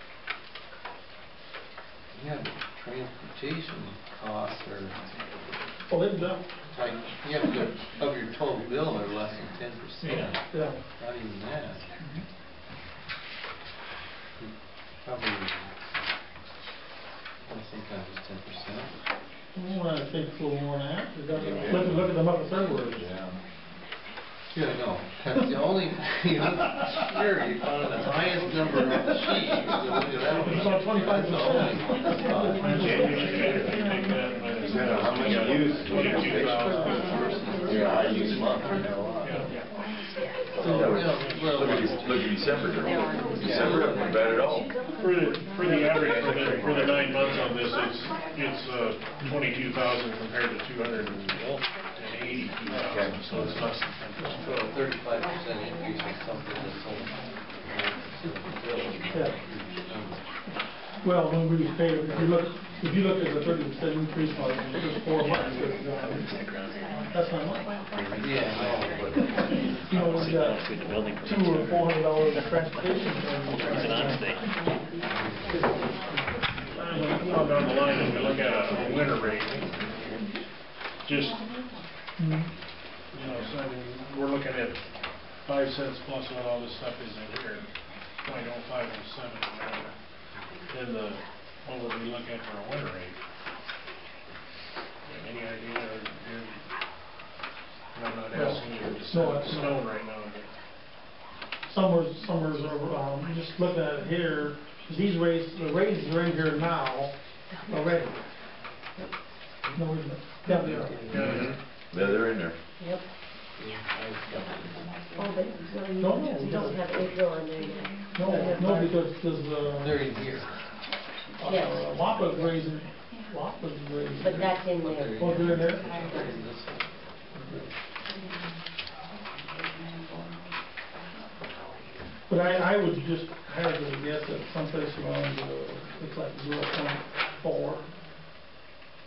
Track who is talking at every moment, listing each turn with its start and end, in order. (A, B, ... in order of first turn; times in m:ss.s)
0:02.1-0:05.2 A
0:05.9-0:06.5 B
0:06.7-0:11.8 A
0:10.0-0:10.3 C
0:10.5-0:10.8 B
0:12.0-0:12.2 B
0:14.4-0:15.8 A
0:17.4-0:19.0 A
0:19.5-0:23.0 B
0:21.3-0:23.4 D
0:24.5-0:33.1 A
0:30.3-0:33.3 B
0:32.5-0:37.2 C
0:32.7-0:33.7 D
0:34.5-0:39.5 D
0:35.9-0:38.8 A
0:39.2-0:39.5 C
0:40.5-0:44.8 D
0:40.6-0:41.0 B
0:40.7-0:42.6 A
0:41.1-0:41.7 C
0:43.4-0:44.2 A
0:45.0-0:54.6 C
0:45.6-0:47.4 D
0:52.7-0:53.7 D
0:54.4-1:00.3 A
0:59.1-0:59.4 B
1:01.0-1:06.4 B
1:07.1-1:07.7 B
1:08.0-1:09.5 A
1:09.4-1:14.5 B
1:15.1-1:15.5 A
1:15.5-1:16.2 B
1:16.8-1:19.8 C
1:16.9-1:17.2 B
1:21.0-1:21.4 C
1:22.2-1:22.5 B
1:23.1-1:30.0 C
1:30.6-1:33.2 C
1:35.0-1:36.7 C
1:37.9-1:40.6 C
1:38.3-1:39.8 B
1:41.7-1:47.1 B
1:47.7-1:48.2 B
1:49.7-1:51.0 B
1:50.4-1:51.6 A
1:51.1-1:51.5 C
1:51.1-1:52.6 D
1:52.8-1:53.0 E
1:53.6-1:54.9 A
1:55.2-1:58.9 E
1:56.0-1:56.8 B
1:58.1-2:00.0 B
1:59.8-2:00.6 A
2:01.4-2:04.6 B
2:01.4-2:01.8 E
2:04.1-2:06.2 E
2:04.2-2:07.8 A
2:05.2-2:05.9 B
2:12.3-2:17.9 B